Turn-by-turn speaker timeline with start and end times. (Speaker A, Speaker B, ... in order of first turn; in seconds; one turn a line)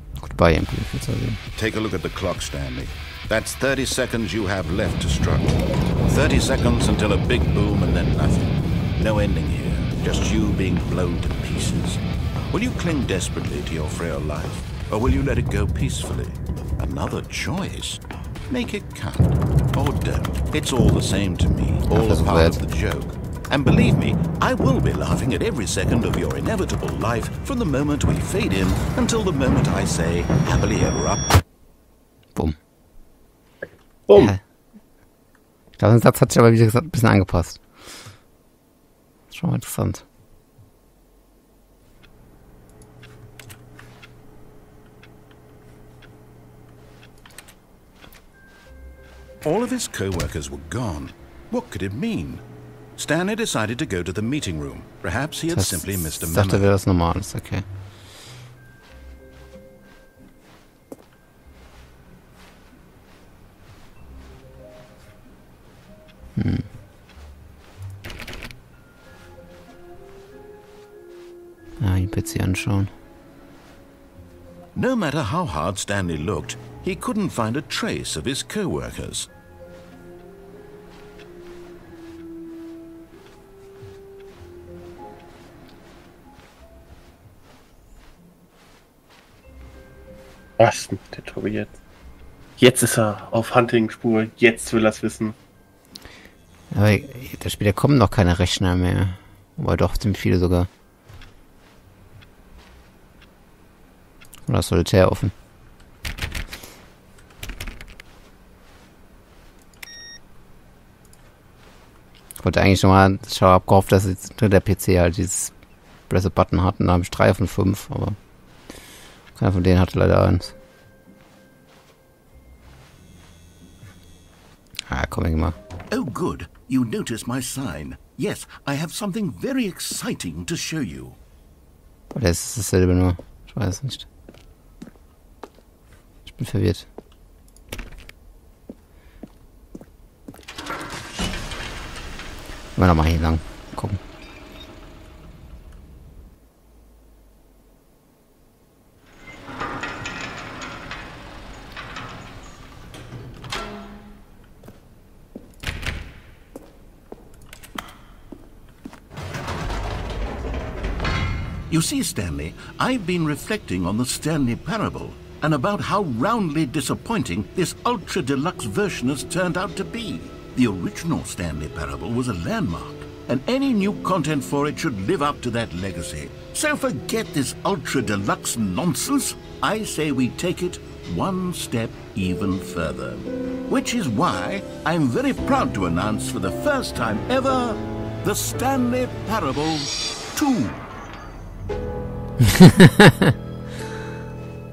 Speaker A: 0.2-1.4
Speaker B: 1.6-31.3
Speaker A: 21.9-22.6
Speaker C: 34.1-34.3
Speaker A: 34.1-34.4
Speaker A: 35.8-37.9
Speaker A: 39.3-40.0
Speaker B: 49.4-52.4
Speaker B: 53.0-56.7
Speaker A: 55.5-57.6
Speaker A: 66.4-66.7
Speaker A: 71.8-72.9
Speaker B: 74.8-79.3
Speaker C: 90.6-91.8
Speaker C: 92.6-95.4
Speaker A: 96.7-100.7
Speaker A: 104.5-105.3
Speaker A: 112.4-115.5
Speaker A: 116.1-118.2
Speaker A: 119.4-120.5
Speaker A: 124.9-125.6
Speaker B: 125.9-131.2
Speaker A: 132.1-134.1
Speaker A: 136.3-136.9
Speaker A: 142.8-144.0
Speaker B: 161.7-190.9
Speaker A: 192.5-193.3